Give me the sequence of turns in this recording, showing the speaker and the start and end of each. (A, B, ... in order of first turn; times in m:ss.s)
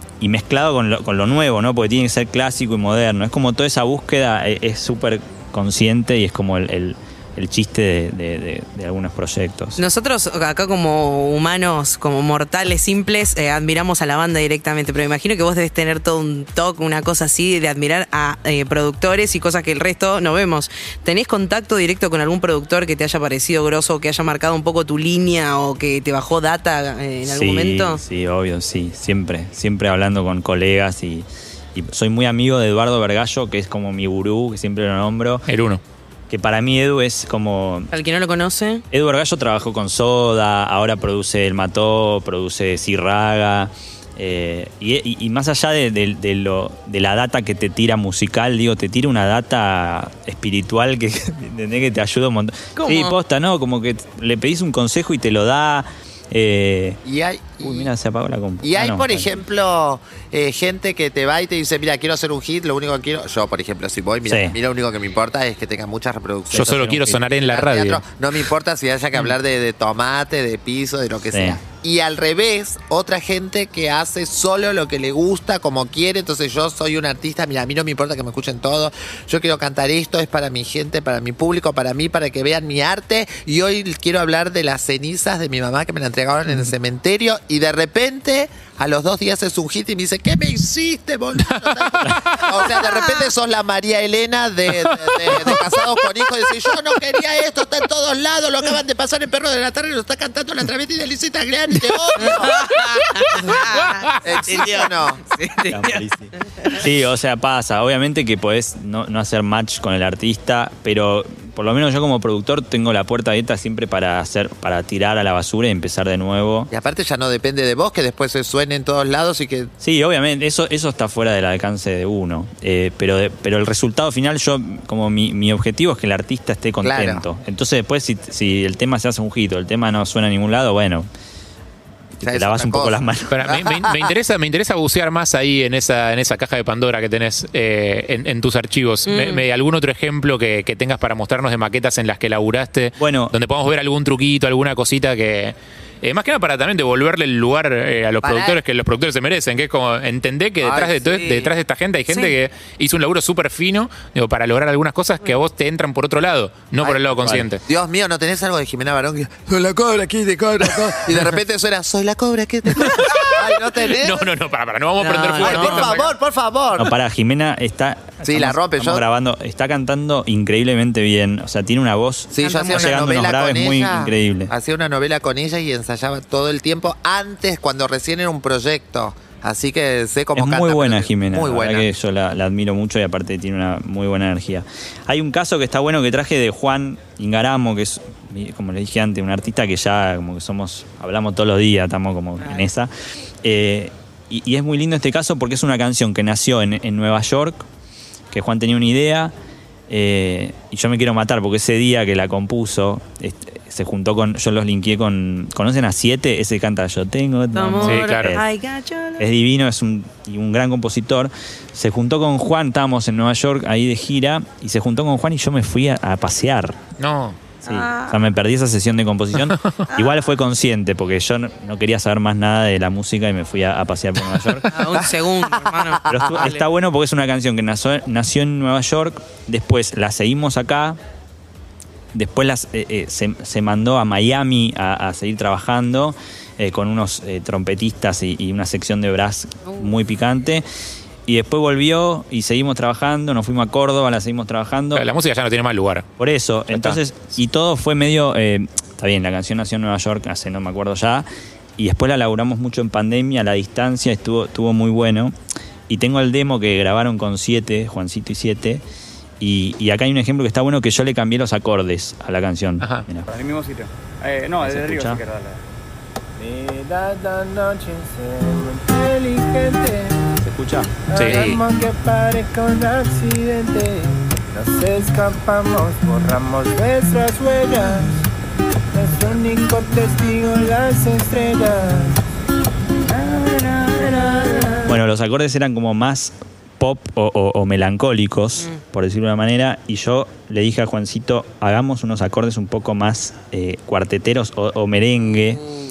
0:00.2-0:09.8 A
0:09.8-0:28.0 B
0:27.2-0:35.5 A
0:35.5-0:35.8 C
0:36.3-0:37.9 A
0:37.9-0:38.8 B
0:38.9-0:57.0 A
0:52.8-0:53.2 B
0:57.0-0:57.9 D
0:57.6-0:59.3 A
0:58.6-1:42.6 D
1:04.2-1:04.6 A
1:06.5-1:07.2 A
1:06.5-1:08.0 C
1:11.3-1:11.6 A
1:35.1-1:35.6 C
1:42.2-1:46.0 B
1:44.2-1:45.2 D
1:45.7-1:56.7 A
1:56.7-1:59.7 D
1:59.8-2:11.1 A
2:06.8-2:07.2 D
2:12.2-2:13.5 A
2:12.2-2:14.1 D
2:13.3-2:37.6 C
2:19.0-2:19.4 B
2:23.0-2:23.3 A
2:28.2-2:28.6 D
2:30.6-2:31.3 D
2:31.2-2:31.5 B
2:32.1-2:32.4 B
2:36.8-2:44.3 D
2:37.2-2:37.5 A
2:42.7-2:46.0 C
2:45.0-2:46.0 B
2:45.4-2:46.9 D
2:46.8-2:54.5 A
2:48.2-2:49.0 D
2:52.3-3:01.8 D
2:52.4-2:53.0 B
3:00.3-3:12.9 A
3:12.4-3:12.7 B
3:13.4-3:17.6 A
3:18.3-3:19.3 A
3:19.9-3:28.4 A
3:27.5-3:29.2 B
3:27.8-3:28.3 C
3:29.2-3:36.8 A
3:37.0-3:37.4 C
3:37.6-3:38.2 B
3:37.6-3:44.7 A
3:44.7-3:46.6 B
3:46.0-3:46.3 D
3:46.1-3:51.0 A
3:52.1-4:00.6 A
3:59.6-3:59.9 B
4:01.3-4:05.0 A
4:04.9-4:06.0 C
4:06.2-4:11.2 A
4:06.7-4:07.0 C
4:11.8-4:15.3 A
4:15.9-4:18.8 A
4:19.4-4:23.3 A
4:23.3-4:25.6 E
4:24.6-4:25.2 A
4:26.8-4:30.1 D
4:30.4-4:30.9 A
4:31.1-4:33.8 D
4:31.1-4:31.6 C
4:34.6-4:38.1 D
4:38.9-4:42.1 D
4:43.3-4:44.8 B
4:44.8-4:55.6 A